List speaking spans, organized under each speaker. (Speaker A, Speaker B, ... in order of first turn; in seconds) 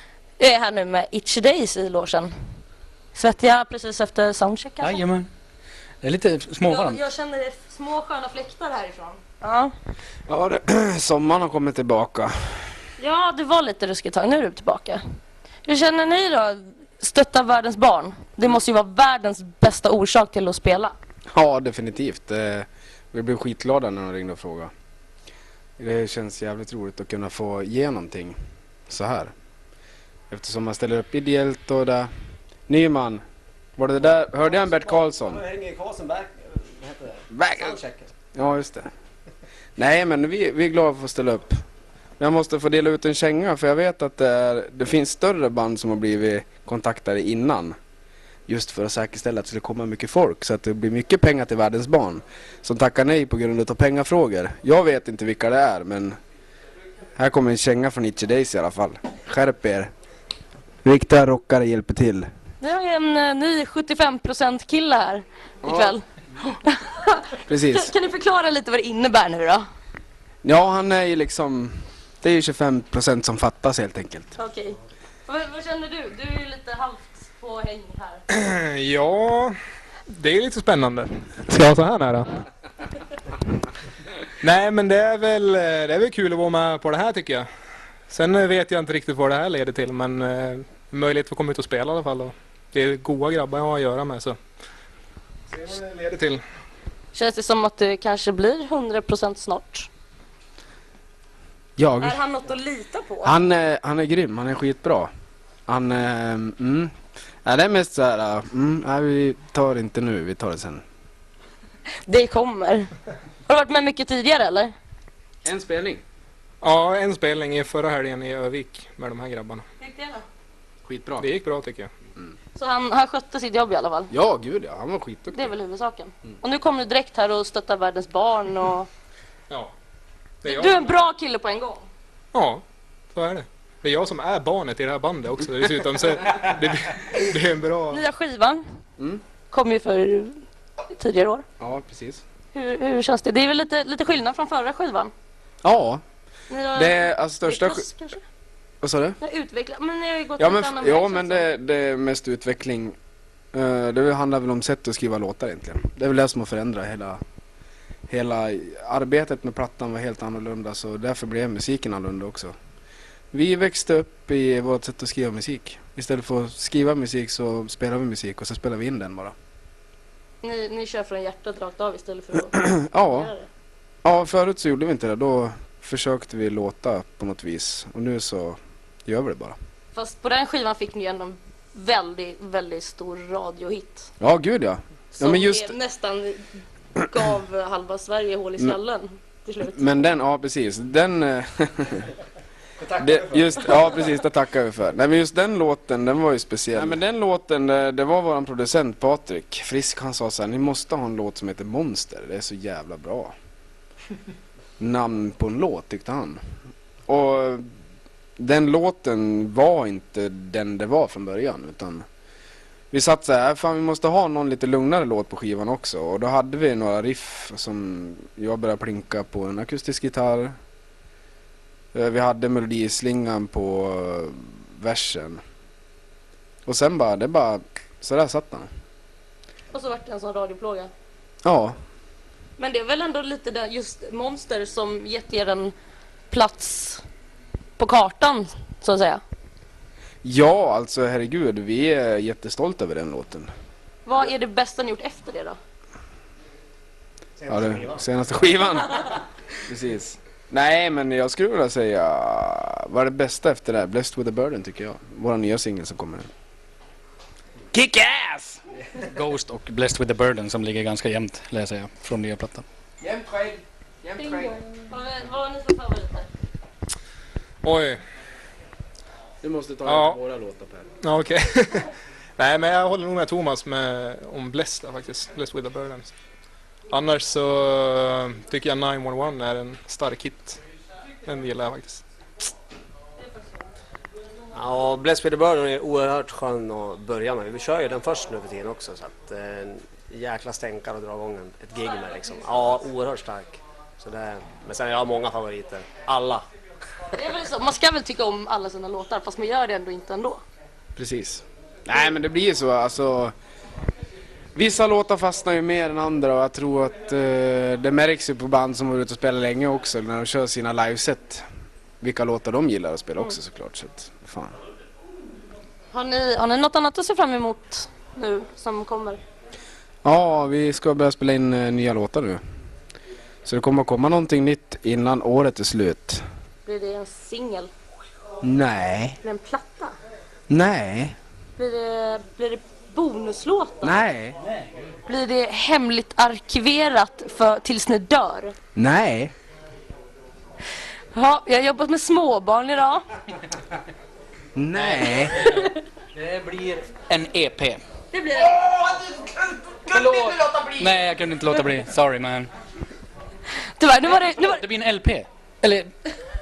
Speaker A: 0.4-2.3, 3.1-5.0, 6.6-9.7, 13.0-15.0, 15.7-20.9, 62.6-69.6, 74.4-78.2, 97.1-99.9, 102.0-103.4, 112.1-112.9, 113.5-114.7, 119.8-120.2, 122.5-124.1, 125.3-128.9, 130.4-131.9, 137.9-138.6, 139.5-141.4, 142.5-145.1, 146.5-148.2, 149.2-151.5, 170.4-173.5, 179.9-184.1, 185.2-189.8, 229.7-230.9, 232.6-235.7, 236.3-237.0, 237.8-239.2, 244.1-245.6, 264.2-266.3, 297.1-300.4, 315.9-319.2, 326.6-327.7, 329.2-329.9, 331.6-334.0, 335.1-338.5, 341.1-343.1, 345.4-345.8, 348.1-348.6, 353.8-354.6
Speaker B: 4.8-5.3, 6.0-7.0, 259.0-262.7, 344.8-345.6, 346.1-347.8, 349.7-352.5, 354.2-355.9
Speaker C: 10.3-12.7, 21.3-24.7, 25.8-28.4, 28.9-29.3, 30.3-32.1, 32.7-33.2, 33.8-35.4, 37.4-37.8, 38.3-38.9, 39.8-41.5, 42.2-47.8, 48.5-56.2, 57.2-59.9, 60.8-62.3, 65.6-66.0, 67.5-67.9, 70.4-74.3, 101.8-102.2, 103.2-105.1, 105.7-106.9, 107.4-110.8, 115.4-116.0, 120.9-121.3, 124.1-125.5, 141.6-142.2, 145.6-146.0, 146.7-147.9, 148.8-149.2, 150.4-153.0, 153.5-157.2, 158.1-162.5, 163.3-169.3, 172.5-173.3, 174.0-179.6, 184.2-185.8, 189.7-192.1, 192.9-203.3, 204.8-206.4, 207.1-207.7, 208.4-212.0, 212.9-220.5, 221.9-225.4, 226.7-228.7, 231.4-231.8, 240.2-243.5, 247.5-256.3, 257.7-258.6, 263.0-264.6, 269.4-270.9, 301.0-303.3, 304.6-311.4, 312.0-314.6, 320.0-322.4, 323.4-326.2, 328.4-329.2, 330.5-331.2, 333.8-334.4, 338.8-339.3, 344.6-345.4, 348.9-349.3
Speaker D: 34.4-38.1, 192.8-193.9, 247.4-248.0, 284.5-296.4
Speaker E: 78.3-79.5, 80.1-82.4, 84.4-87.5, 88.1-94.4, 95.5-96.4, 116.6-119.6, 121.2-121.9, 130.4-130.9, 132.3-138.0, 267.6-268.0, 269.9-270.2, 271.0-276.1, 276.9-280.6, 281.2-282.0